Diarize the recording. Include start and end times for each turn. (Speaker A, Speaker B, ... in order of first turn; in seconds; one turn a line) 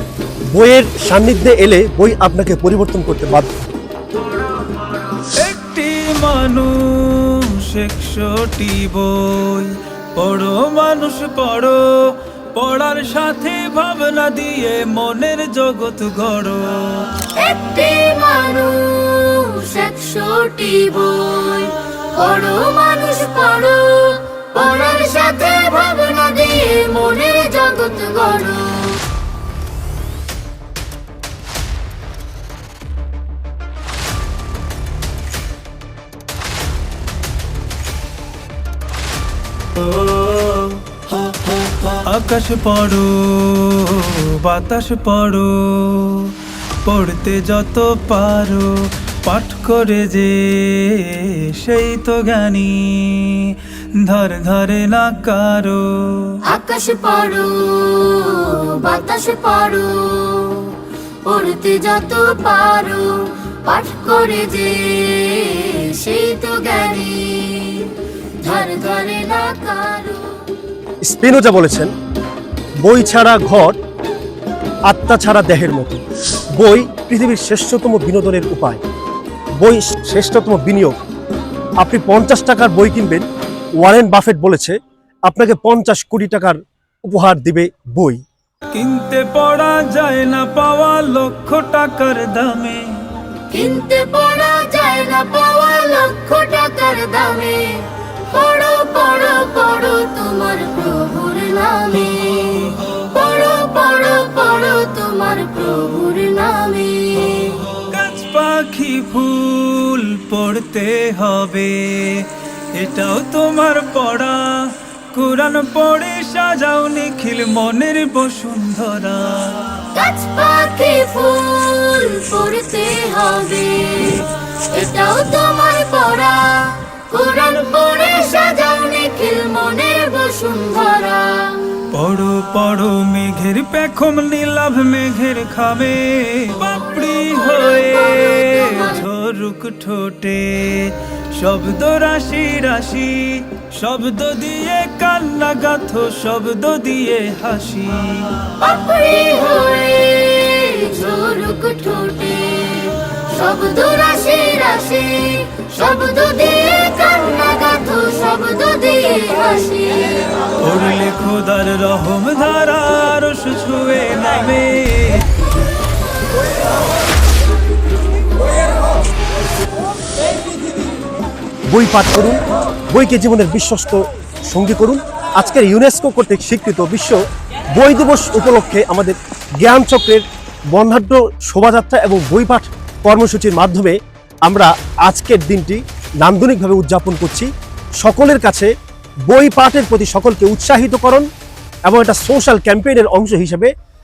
Speaker A: 0.5-3.5
Speaker B: 5.2-17.2
Speaker C: 17.3-29.0
Speaker B: 41.9-56.4
Speaker C: 56.4-70.5
Speaker A: 71.0-71.9
Speaker A: 72.8-73.8
Speaker A: 74.9-76.0
Speaker A: 76.5-78.8
Speaker A: 79.6-80.9
Speaker A: 81.8-83.2
Speaker A: 83.8-88.2
Speaker B: 88.7-93.1
Speaker C: 93.5-107.6
Speaker B: 102.6-102.9
Speaker B: 107.7-119.8
Speaker C: 119.9-131.8
Speaker B: 131.9-148.5
Speaker C: 137.5-139.0
Speaker C: 148.5-160.4
Speaker B: 160.6-165.3
Speaker A: 171.7-177.2
Speaker A: 177.7-188.7
Speaker A: 189.3-191.3
Speaker A: 191.8-193.7